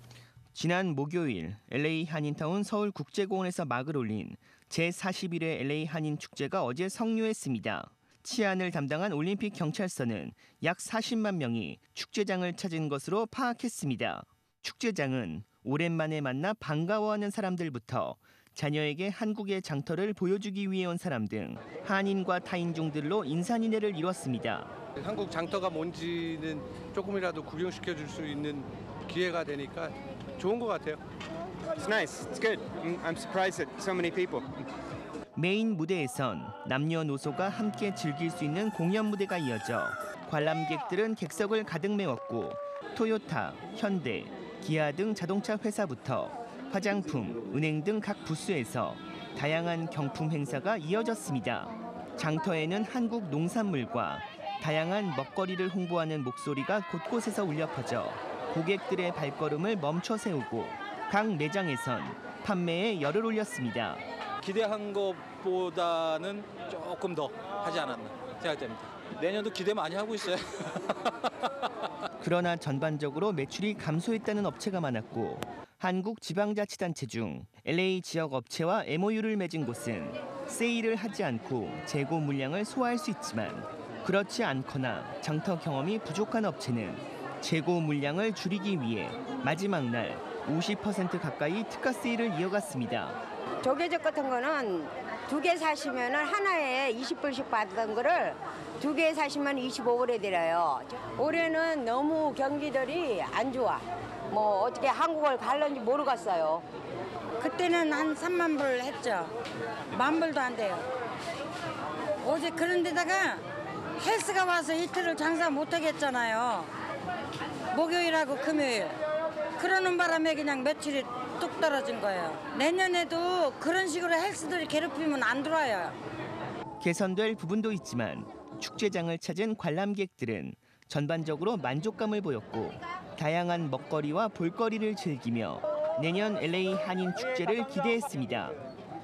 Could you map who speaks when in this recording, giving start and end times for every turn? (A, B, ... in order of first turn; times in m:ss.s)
0:00.5-0:24.7 A
0:25.0-0:31.0 B
0:31.8-0:34.6 C
0:35.4-1:04.0 A
1:04.4-1:11.1 D
1:12.2-1:33.2 A
1:33.6-1:46.6 E
1:47.4-1:49.3 F
1:49.9-1:50.9 F
1:52.2-1:53.4 F
1:54.0-1:56.7 F
1:57.7-1:59.0 F
1:59.6-2:06.0 F
2:06.8-2:18.6 A